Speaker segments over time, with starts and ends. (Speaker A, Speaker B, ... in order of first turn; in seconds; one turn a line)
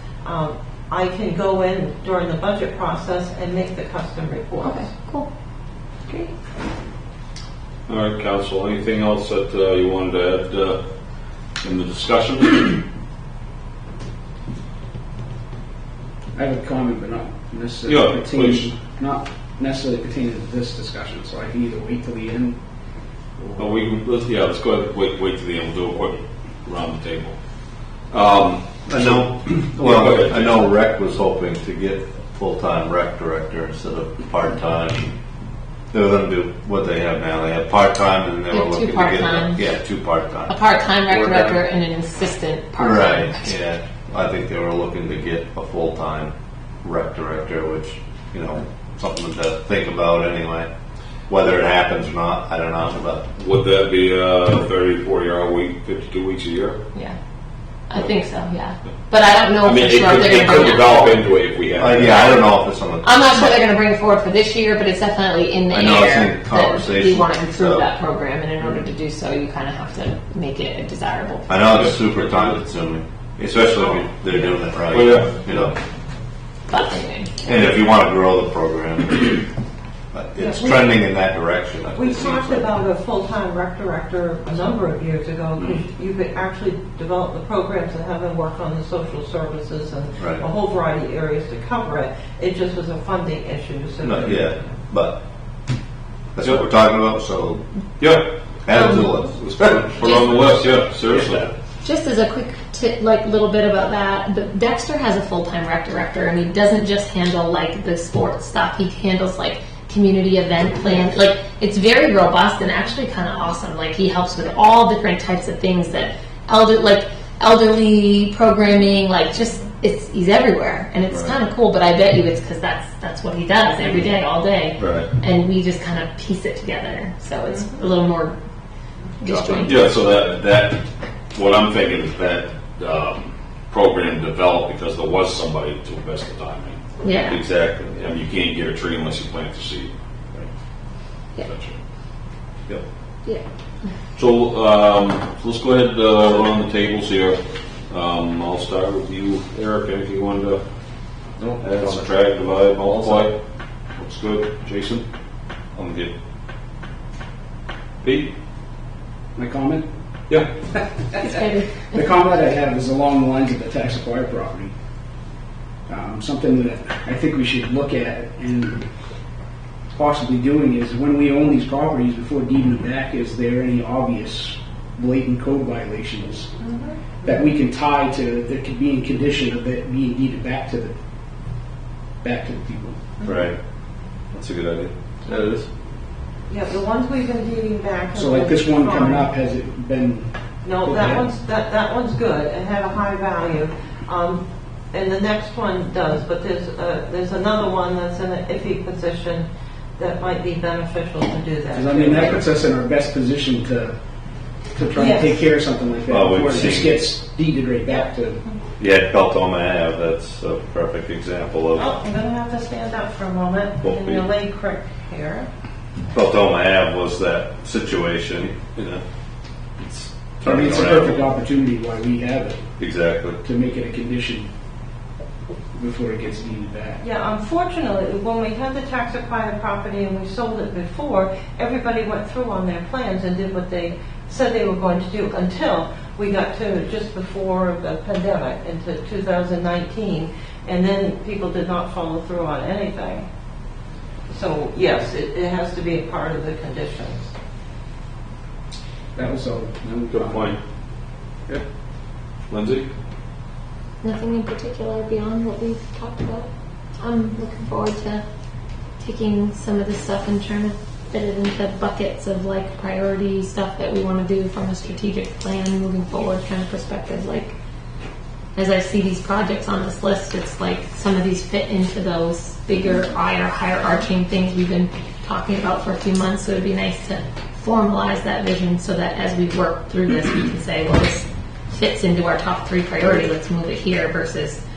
Speaker A: 0.2-4.9
Speaker B: 4.6-5.3
Speaker B: 6.1-6.3
Speaker C: 7.9-10.8
Speaker C: 11.6-12.8
Speaker D: 16.3-22.6
Speaker C: 17.8-18.7
Speaker D: 23.4-23.8
Speaker C: 23.6-27.4
Speaker C: 28.1-30.7
Speaker E: 28.9-35.1
Speaker E: 35.9-40.5
Speaker B: 38.5-39.7
Speaker B: 40.5-43.5
Speaker E: 41.1-41.6
Speaker E: 42.8-50.7
Speaker E: 51.3-53.2
Speaker C: 53.4-56.8
Speaker B: 57.9-61.2
Speaker C: 59.5-62.4
Speaker E: 61.8-63.5
Speaker B: 63.0-71.6
Speaker E: 65.7-67.9
Speaker E: 71.5-75.7
Speaker C: 71.8-72.5
Speaker A: 73.7-74.6
Speaker C: 74.9-75.7
Speaker B: 76.7-77.3
Speaker E: 77.4-79.4
Speaker E: 80.1-82.7
Speaker A: 80.4-80.9
Speaker A: 81.9-94.7
Speaker E: 90.2-90.4
Speaker E: 94.0-95.2
Speaker E: 96.3-97.7
Speaker C: 96.4-96.7
Speaker C: 98.0-98.3
Speaker E: 98.7-100.1
Speaker B: 98.7-99.3
Speaker C: 99.6-101.5
Speaker B: 100.0-100.5
Speaker B: 101.8-128.4
Speaker E: 121.1-121.4
Speaker E: 124.8-125.1
Speaker A: 127.5-127.8
Speaker B: 129.2-129.8
Speaker E: 129.2-129.8
Speaker C: 129.6-130.8
Speaker C: 131.3-139.9
Speaker B: 137.0-137.4
Speaker E: 137.7-138.0
Speaker C: 141.3-141.8
Speaker C: 144.2-150.6
Speaker E: 151.4-152.1
Speaker C: 151.6-153.3
Speaker E: 152.8-153.3
Speaker C: 154.0-155.0
Speaker E: 155.7-156.1
Speaker C: 158.0-158.3
Speaker D: 159.3-159.8
Speaker B: 161.2-161.9
Speaker D: 161.9-164.7
Speaker D: 165.9-168.8
Speaker D: 169.9-176.5
Speaker A: 176.6-177.4
Speaker D: 177.2-180.9
Speaker D: 182.2-183.0
Speaker A: 183.2-183.5
Speaker E: 183.2-183.6
Speaker E: 184.3-185.7
Speaker A: 186.5-189.3
Speaker D: 188.1-191.2
Speaker A: 190.6-202.4
Speaker D: 201.7-203.9
Speaker D: 204.7-208.4
Speaker A: 204.9-205.4
Speaker E: 206.1-206.9
Speaker A: 207.9-208.6
Speaker E: 208.8-212.0
Speaker A: 211.8-215.5
Speaker E: 213.8-214.3
Speaker E: 216.1-219.0
Speaker E: 219.8-221.2
Speaker D: 220.4-222.6
Speaker E: 222.8-223.4
Speaker D: 223.4-224.5
Speaker D: 225.7-227.0
Speaker A: 227.0-243.3
Speaker A: 244.3-247.3
Speaker D: 249.1-250.6
Speaker C: 250.1-250.6
Speaker C: 252.5-252.9
Speaker B: 254.0-258.2
Speaker B: 259.0-267.5
Speaker B: 268.5-284.6